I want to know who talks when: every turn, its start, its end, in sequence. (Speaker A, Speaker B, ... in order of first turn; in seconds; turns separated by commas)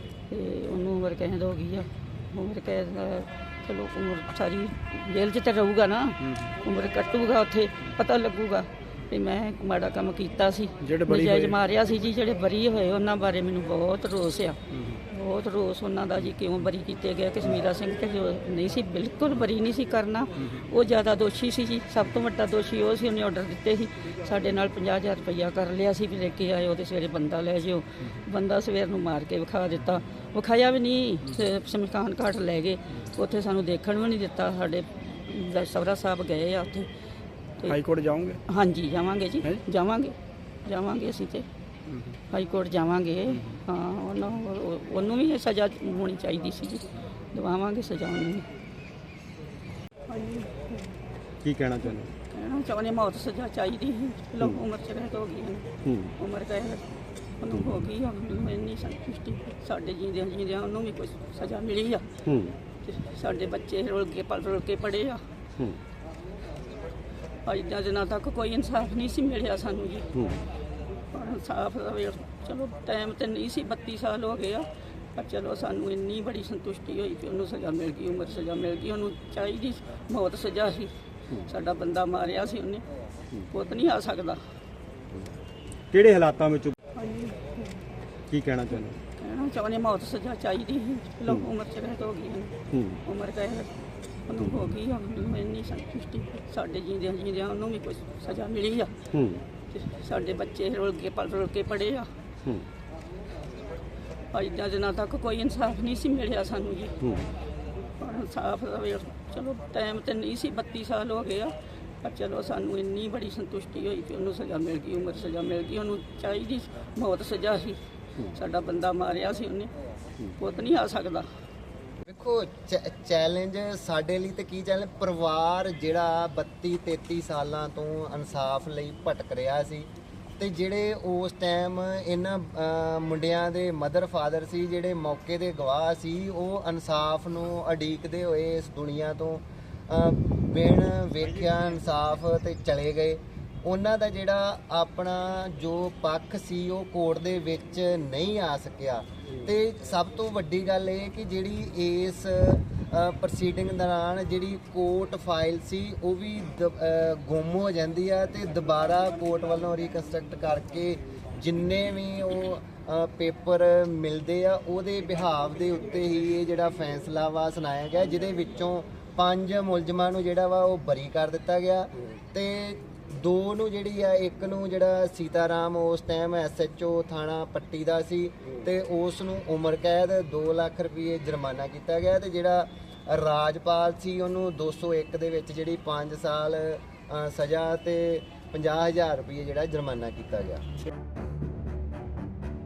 Speaker A: 0.3-36.9, Speaker B: 10.8-11.6, Speaker B: 37.7-38.4, Speaker A: 38.5-41.5, Speaker B: 41.9-42.1, Speaker A: 42.3-48.5, Speaker A: 50.1-50.9, Speaker B: 51.4-52.1, Speaker A: 51.9-56.8, Speaker A: 57.4-65.3, Speaker A: 67.5-70.3, Speaker A: 71.1-82.8, Speaker A: 83.4-84.4, Speaker B: 85.9-86.8, Speaker A: 87.0-87.8, Speaker B: 88.3-88.9, Speaker A: 88.8-93.7, Speaker A: 94.3-99.1, Speaker A: 99.7-102.2, Speaker A: 104.3-107.1, Speaker A: 108.0-119.7, Speaker A: 120.3-121.3, Speaker C: 122.1-190.6